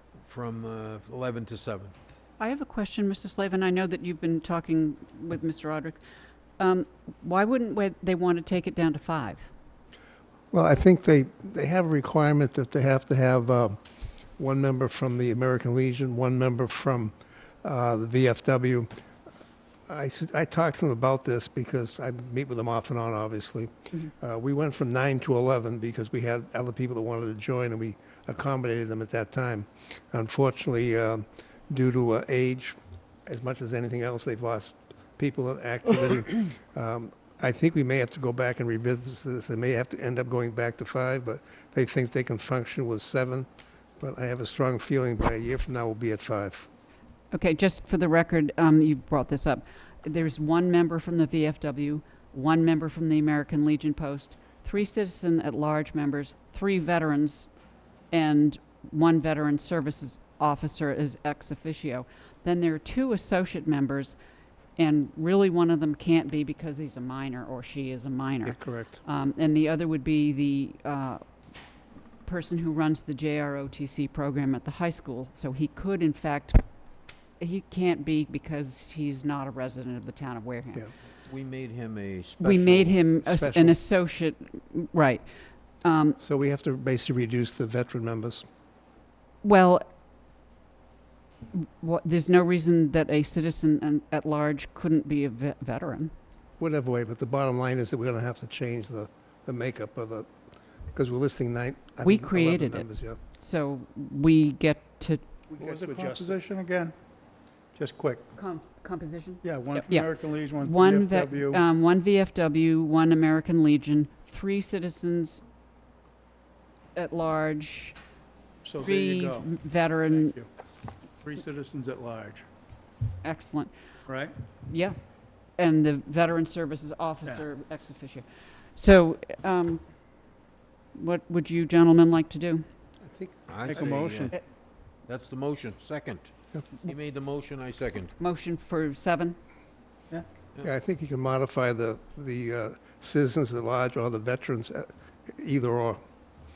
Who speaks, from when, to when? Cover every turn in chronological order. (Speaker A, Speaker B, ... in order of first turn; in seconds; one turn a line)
Speaker A: 0.3-1.9
Speaker B: 2.4-6.0
Speaker B: 6.6-9.5
Speaker C: 10.5-13.8
Speaker C: 14.4-18.9
Speaker C: 19.9-43.5
Speaker C: 44.0-46.7
Speaker B: 47.3-57.5
Speaker B: 58.1-64.2
Speaker B: 64.8-71.2
Speaker C: 68.4-69.0
Speaker B: 72.2-76.6
Speaker B: 77.4-80.9
Speaker A: 81.3-83.0
Speaker B: 82.4-85.3
Speaker C: 83.2-83.8
Speaker B: 85.8-86.2
Speaker C: 86.2-88.5
Speaker B: 89.4-89.8
Speaker B: 91.5-96.1
Speaker C: 96.6-100.3
Speaker C: 100.9-103.2
Speaker B: 102.0-105.2
Speaker C: 105.5-106.4
Speaker D: 105.6-107.0
Speaker D: 107.7-108.3
Speaker B: 108.4-115.4
Speaker D: 109.4-111.6
Speaker B: 117.0-118.0
Speaker D: 118.6-119.5
Speaker B: 118.8-120.4
Speaker D: 120.1-120.5
Speaker D: 121.2-122.5
Speaker B: 123.2-123.7
Speaker D: 124.1-124.3
Speaker B: 124.7-125.0
Speaker B: 125.5-130.4
Speaker B: 130.9-132.7
Speaker C: 133.0-134.0
Speaker A: 133.5-134.4
Speaker D: 133.7-134.3
Speaker A: 135.1-138.1
Speaker B: 138.2-139.4
Speaker C: 140.6-146.0